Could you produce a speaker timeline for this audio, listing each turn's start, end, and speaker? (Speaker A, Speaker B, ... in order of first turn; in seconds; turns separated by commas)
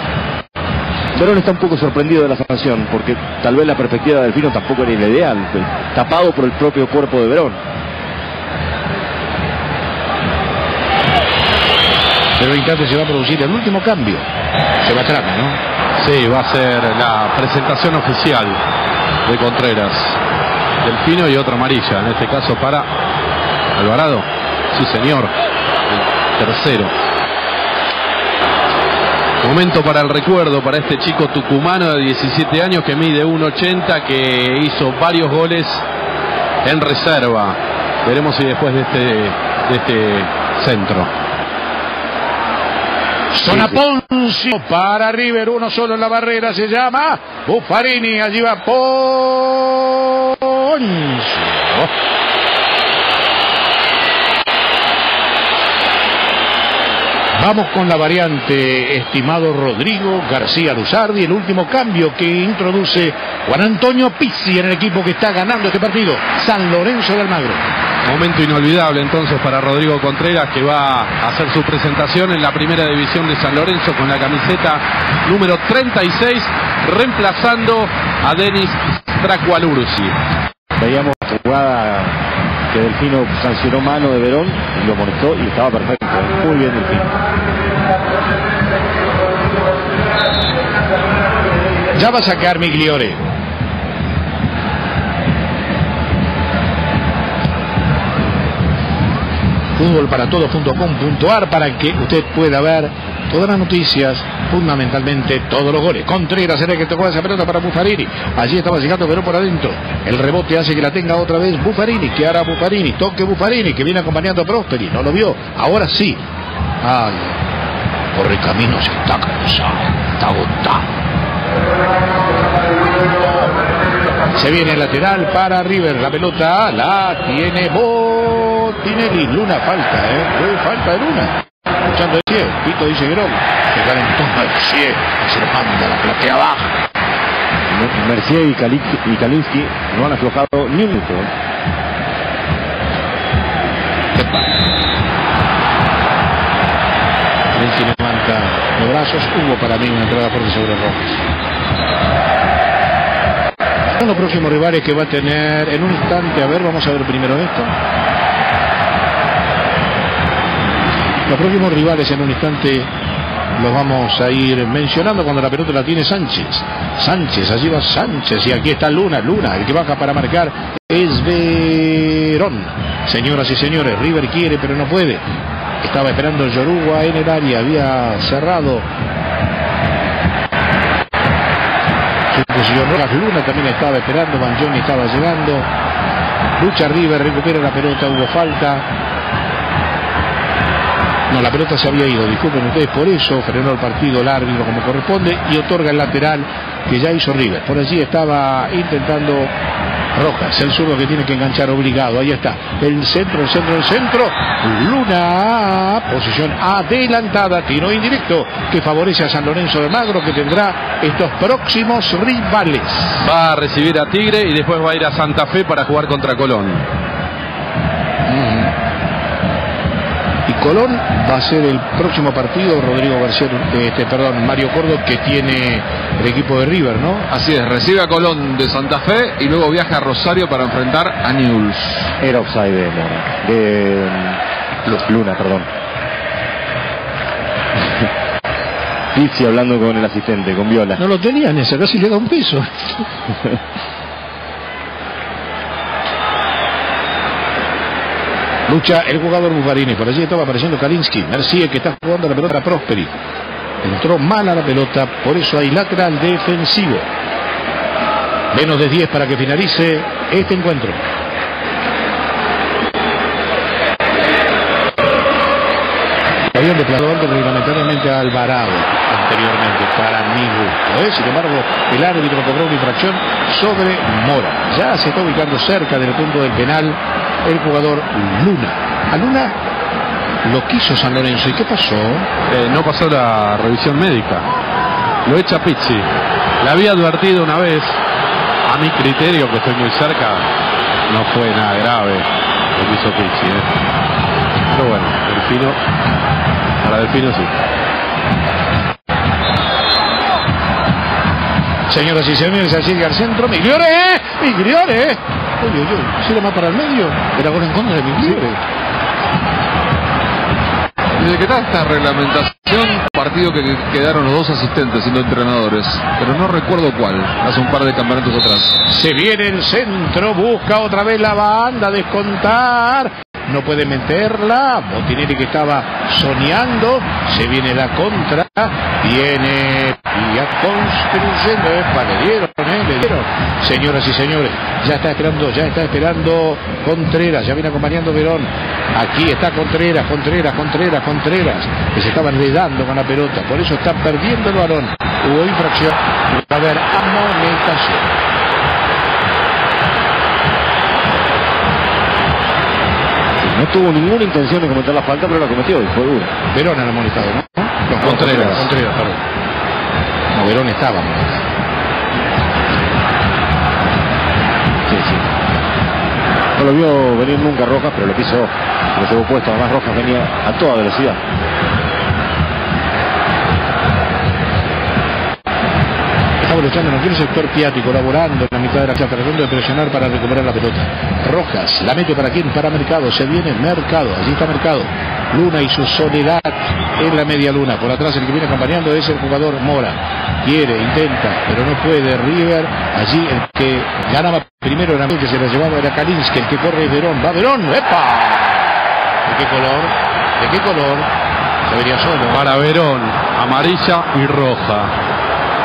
Speaker A: 1.1-7.6, Speaker B: 12.4-14.3, Speaker B: 14.8-15.6, Speaker C: 16.0-18.6, Speaker C: 19.3-20.2, Speaker C: 20.8-22.9, Speaker C: 23.8-25.3, Speaker C: 25.9-26.9, Speaker C: 29.4-35.8, Speaker C: 36.6-41.1, Speaker B: 43.3-51.9, Speaker B: 57.4-67.7, Speaker C: 68.0-80.2, Speaker A: 80.8-87.1, Speaker B: 91.9-93.2, Speaker B: 99.8-116.2, Speaker B: 116.8-117.4, Speaker B: 118.1-120.9, Speaker B: 124.3-136.7, Speaker A: 137.7-141.3, Speaker B: 144.2-144.5, Speaker B: 147.5-151.1, Speaker B: 154.0-157.8, Speaker B: 161.3-162.9, Speaker B: 163.6-175.2, Speaker B: 175.8-178.9, Speaker B: 182.3-185.7, Speaker B: 186.6-188.9, Speaker B: 191.3-199.5, Speaker B: 200.2-213.2, Speaker C: 213.2-216.8, Speaker B: 218.3-218.7, Speaker B: 220.5-227.3, Speaker D: 227.3-232.1, Speaker A: 232.2-235.7, Speaker A: 239.1-241.0, Speaker B: 241.0-243.1, Speaker B: 248.7-253.1, Speaker B: 253.8-257.1, Speaker B: 258.5-261.1, Speaker B: 266.5-279.6, Speaker B: 280.4-282.3, Speaker C: 282.5-284.5, Speaker C: 285.2-286.1, Speaker C: 286.6-288.0, Speaker C: 288.6-290.5, Speaker C: 291.1-293.7, Speaker C: 294.7-295.8, Speaker C: 296.8-297.5, Speaker B: 301.9-308.6, Speaker D: 311.2-318.8, Speaker B: 318.9-348.1, Speaker A: 353.4-356.3, Speaker B: 356.5-359.2, Speaker A: 358.0-358.6, Speaker C: 358.0-358.9, Speaker B: 360.3-361.4, Speaker A: 364.9-365.3, Speaker A: 366.6-371.2, Speaker B: 376.4-401.1, Speaker B: 401.7-402.4, Speaker C: 402.3-404.9